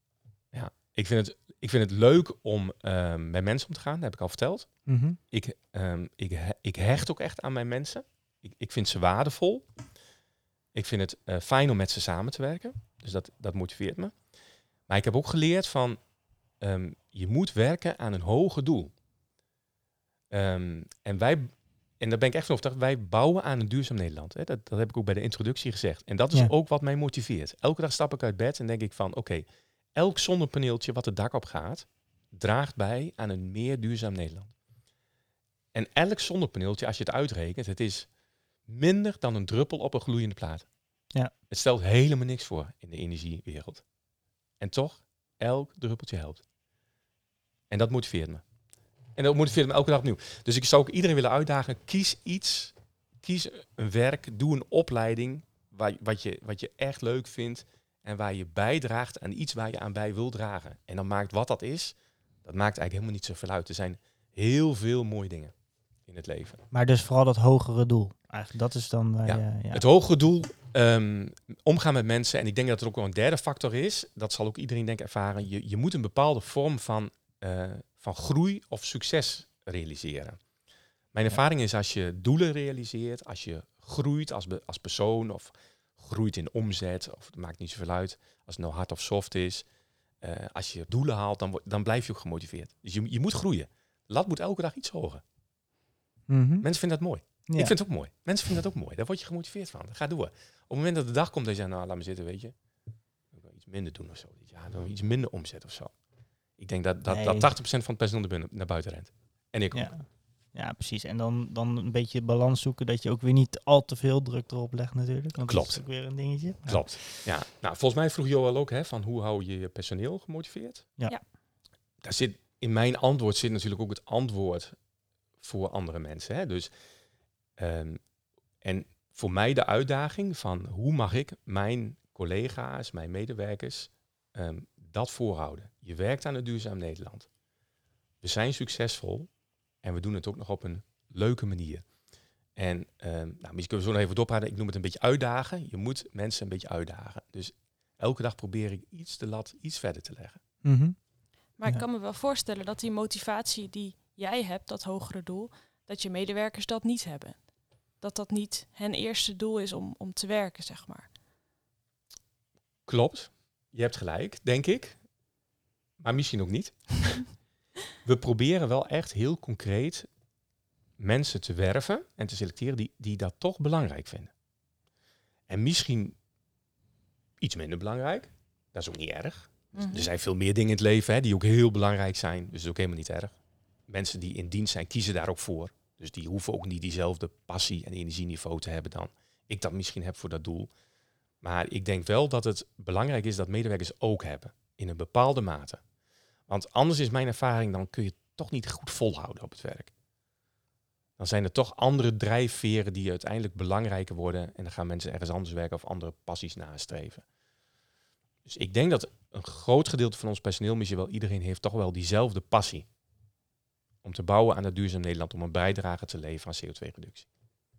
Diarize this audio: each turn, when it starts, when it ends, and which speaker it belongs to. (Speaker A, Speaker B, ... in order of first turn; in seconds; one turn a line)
Speaker A: 0.5-4.7
Speaker B: 4.9-5.2
Speaker A: 5.3-9.7
Speaker A: 10.7-14.1
Speaker A: 14.9-16.0
Speaker A: 16.6-18.9
Speaker A: 20.3-34.5
Speaker A: 35.7-38.1
Speaker A: 38.7-40.6
Speaker A: 41.5-43.8
Speaker A: 44.6-46.4
Speaker A: 47.7-48.4
Speaker A: 49.1-65.5
Speaker A: 66.1-66.6
Speaker B: 66.7-69.8
Speaker A: 69.2-80.4
Speaker A: 81.1-89.7
Speaker A: 90.2-95.2
Speaker B: 96.3-96.7
Speaker A: 96.6-102.5
Speaker B: 97.5-97.7
Speaker A: 103.3-105.9
Speaker A: 106.6-109.9
Speaker B: 107.1-107.5
Speaker B: 109.7-117.2
Speaker A: 115.4-115.9
Speaker A: 116.7-120.9
Speaker A: 122.0-124.7
Speaker A: 125.4-126.7
Speaker A: 127.6-128.0
Speaker A: 128.6-137.3
Speaker A: 138.2-139.3
Speaker A: 139.8-141.8
Speaker A: 142.6-150.4
Speaker B: 150.6-150.9
Speaker C: 151.6-157.5
Speaker C: 158.0-161.1
Speaker A: 162.9-165.0
Speaker A: 166.0-167.2
Speaker A: 168.0-170.1
Speaker A: 171.0-174.3
Speaker A: 175.5-176.2
Speaker A: 177.4-183.3
Speaker C: 179.7-180.1
Speaker A: 183.9-190.7
Speaker A: 191.4-195.8
Speaker A: 196.5-199.9
Speaker A: 201.2-207.2
Speaker A: 208.4-212.8
Speaker A: 214.0-217.3